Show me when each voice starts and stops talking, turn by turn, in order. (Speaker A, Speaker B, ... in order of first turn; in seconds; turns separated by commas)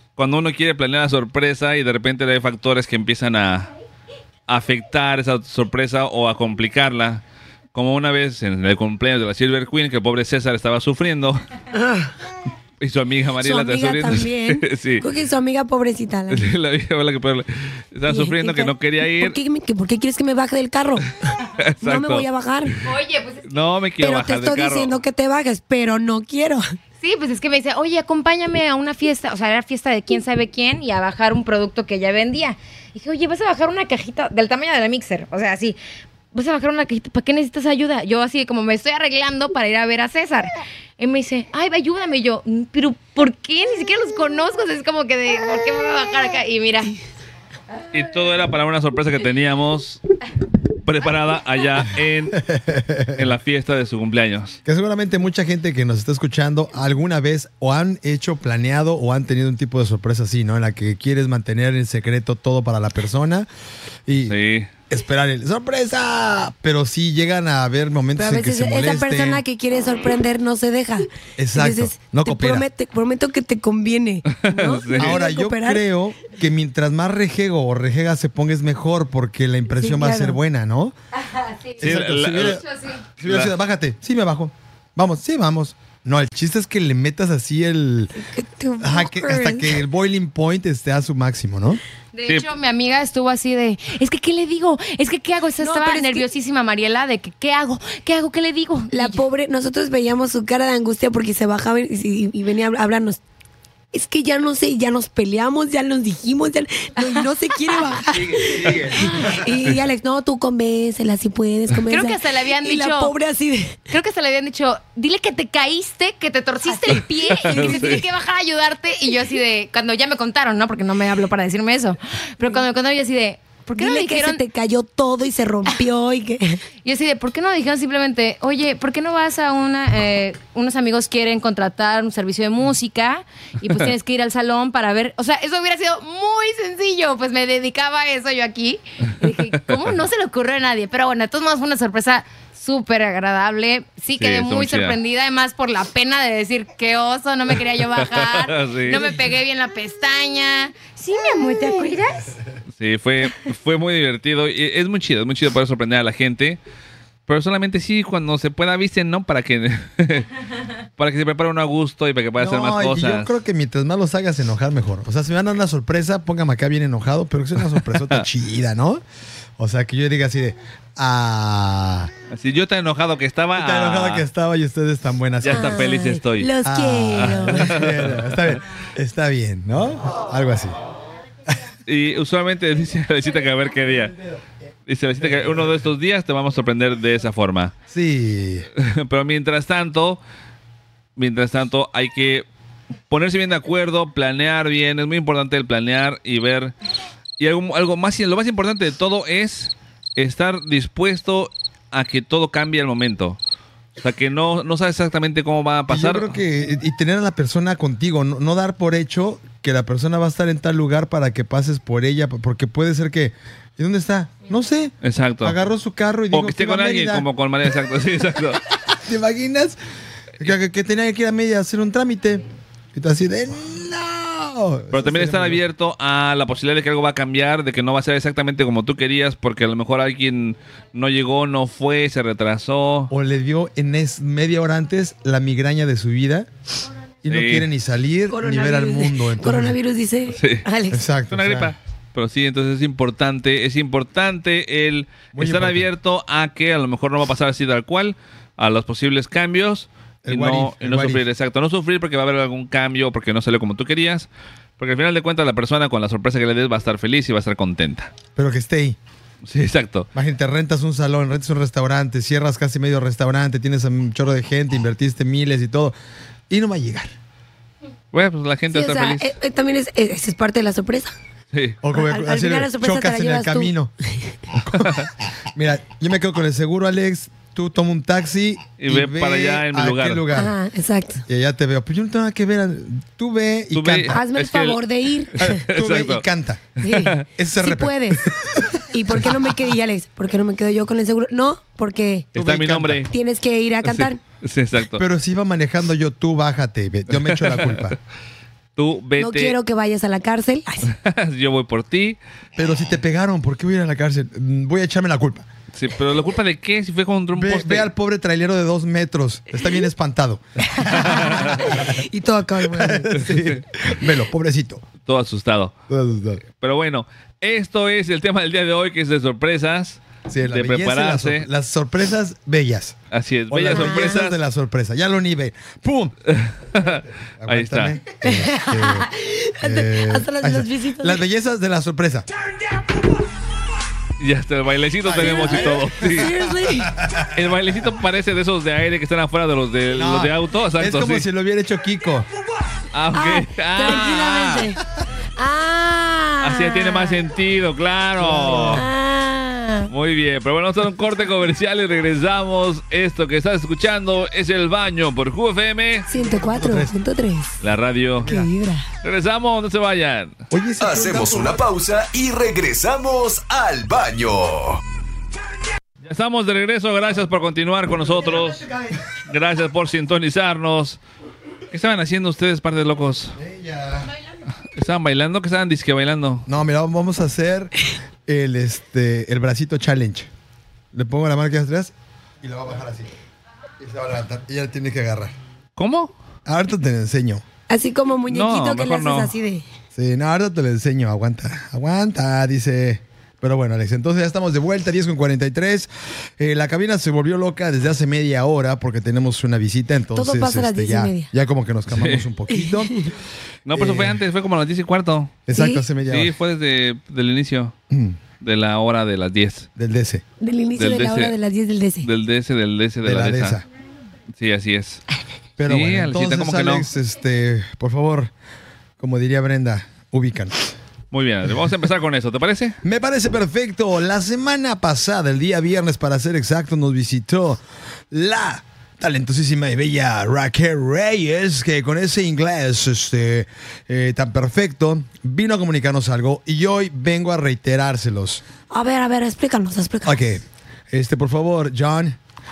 Speaker A: 0.1-3.7, Speaker A: 4.5-7.2, Speaker A: 7.7-11.4, Speaker B: 11.8-12.1, Speaker A: 12.8-15.1, Speaker B: 13.4-16.5, Speaker A: 16.3-19.4, Speaker B: 18.1-21.1, Speaker A: 21.6-22.3, Speaker B: 21.8-22.7, Speaker C: 22.8-23.5, Speaker A: 23.5-24.9, Speaker B: 24.0-26.6, Speaker C: 27.0-35.8, Speaker C: 36.3-46.9, Speaker A: 47.9-50.0, Speaker A: 50.8-52.4, Speaker D: 52.5-53.2, Speaker A: 53.1-54.6, Speaker D: 54.6-63.5, Speaker D: 64.1-64.3, Speaker A: 64.2-64.7, Speaker D: 64.9-69.4, Speaker B: 68.2-75.8, Speaker D: 71.4-72.7, Speaker A: 74.3-75.2, Speaker D: 75.0-81.0, Speaker B: 79.8-80.4, Speaker C: 81.3-81.9, Speaker D: 81.8-82.6, Speaker A: 81.8-82.6, Speaker C: 82.5-83.0, Speaker D: 83.2-88.1, Speaker A: 83.2-83.5, Speaker B: 88.2-89.7, Speaker D: 88.8-91.8, Speaker C: 92.1-99.2, Speaker B: 95.6-96.2, Speaker B: 98.9-103.2, Speaker B: 103.9-113.8, Speaker C: 111.8-113.1, Speaker C: 113.9-124.4, Speaker B: 116.7-117.0, Speaker A: 116.9-118.0, Speaker B: 117.7-118.0, Speaker B: 123.8-126.6, Speaker C: 126.8-152.3, Speaker A: 144.1-145.0, Speaker A: 147.9-149.1, Speaker A: 152.8-156.6, Speaker A: 157.3-160.3, Speaker A: 161.0-163.3, Speaker D: 162.4-169.0, Speaker A: 167.8-168.2, Speaker D: 169.6-172.1, Speaker A: 172.3-174.2, Speaker D: 173.6-175.9, Speaker A: 175.4-176.5, Speaker B: 175.5-177.7, Speaker D: 176.6-180.7, Speaker A: 177.1-178.3, Speaker A: 181.9-184.2, Speaker A: 184.9-187.7, Speaker D: 185.2-185.6, Speaker D: 187.9-188.7, Speaker A: 188.8-190.2, Speaker A: 191.2-192.4, Speaker A: 193.1-196.7, Speaker A: 197.4-203.4, Speaker A: 204.0-206.3, Speaker D: 205.9-217.3, Speaker A: 215.0-215.6, Speaker A: 216.3-218.6, Speaker D: 218.9-219.8, Speaker D: 220.4-225.6, Speaker A: 224.9-233.1, Speaker D: 233.1-236.5, Speaker D: 237.2-239.8, Speaker A: 237.3-237.7, Speaker B: 238.3-241.0, Speaker A: 240.3-240.6, Speaker D: 240.9-241.7, Speaker A: 241.3-254.3, Speaker D: 245.3-245.9, Speaker D: 250.2-251.2, Speaker A: 254.8-258.1, Speaker D: 258.4-259.0, Speaker A: 259.4-260.1, Speaker D: 260.1-265.9, Speaker D: 266.5-267.1, Speaker A: 268.1-269.3, Speaker B: 268.7-271.1, Speaker A: 271.5-271.8, Speaker D: 271.8-273.9, Speaker B: 271.9-273.7, Speaker D: 274.5-280.5, Speaker A: 274.8-275.1, Speaker A: 278.8-280.2, Speaker B: 280.3-281.2, Speaker D: 281.3-284.2, Speaker A: 283.7-284.8, Speaker B: 284.1-285.6, Speaker A: 285.4-286.2, Speaker D: 285.4-288.8, Speaker A: 286.8-287.2, Speaker B: 286.8-288.2, Speaker B: 288.9-292.3, Speaker A: 292.3-293.1, Speaker D: 292.4-293.1, Speaker B: 293.1-294.2, Speaker A: 293.8-295.0, Speaker D: 295.0-298.0, Speaker A: 297.2-297.8, Speaker A: 298.8-299.5, Speaker B: 299.2-300.9, Speaker A: 300.9-302.2, Speaker D: 302.6-305.4, Speaker A: 305.7-307.9, Speaker D: 307.3-311.8, Speaker B: 310.8-313.1, Speaker A: 311.0-311.7, Speaker D: 312.7-314.8, Speaker A: 313.1-313.6, Speaker A: 315.0-315.7, Speaker D: 315.9-316.4, Speaker A: 316.6-321.5, Speaker D: 320.3-323.0, Speaker A: 323.1-324.4, Speaker D: 323.5-326.1, Speaker B: 323.7-324.1, Speaker A: 326.3-327.9, Speaker D: 326.8-329.1, Speaker B: 328.2-331.2, Speaker D: 329.6-332.3, Speaker A: 334.2-336.3, Speaker D: 335.0-337.4, Speaker B: 335.2-336.9, Speaker A: 337.3-341.2, Speaker D: 339.9-342.3, Speaker A: 342.9-344.7, Speaker B: 343.1-344.8, Speaker B: 345.4-347.2, Speaker A: 346.4-348.8, Speaker D: 348.2-348.9, Speaker B: 348.7-349.9, Speaker A: 349.9-356.1, Speaker B: 356.1-357.6, Speaker D: 356.3-356.9, Speaker A: 357.6-358.4, Speaker D: 358.2-358.5, Speaker B: 358.2-358.9, Speaker A: 359.0-360.3, Speaker D: 360.5-361.6, Speaker E: 360.8-364.8, Speaker A: 366.0-368.6, Speaker D: 368.1-369.0, Speaker A: 369.3-371.0, Speaker A: 371.7-373.4, Speaker D: 373.4-374.1, Speaker A: 374.7-376.4, Speaker D: 376.5-377.7, Speaker D: 378.3-380.3, Speaker D: 380.9-383.1, Speaker D: 383.8-385.3, Speaker A: 385.8-386.1, Speaker D: 386.4-387.4, Speaker B: 387.7-389.6, Speaker A: 388.3-389.3, Speaker D: 389.9-403.1, Speaker B: 400.1-401.3, Speaker A: 401.9-402.2, Speaker B: 402.5-403.1, Speaker A: 403.6-405.4, Speaker D: 403.7-404.2, Speaker D: 405.5-406.3, Speaker B: 405.5-405.8, Speaker A: 406.0-407.7, Speaker D: 407.9-408.2, Speaker A: 408.4-409.7, Speaker D: 409.8-410.2, Speaker B: 410.4-412.1, Speaker A: 410.8-411.3, Speaker A: 412.0-413.6, Speaker D: 413.0-413.6, Speaker A: 414.4-415.0, Speaker D: 415.6-418.3, Speaker A: 415.6-416.9, Speaker D: 419.0-420.7, Speaker A: 421.1-422.8, Speaker D: 422.8-438.4, Speaker B: 438.7-440.2, Speaker D: 440.0-442.2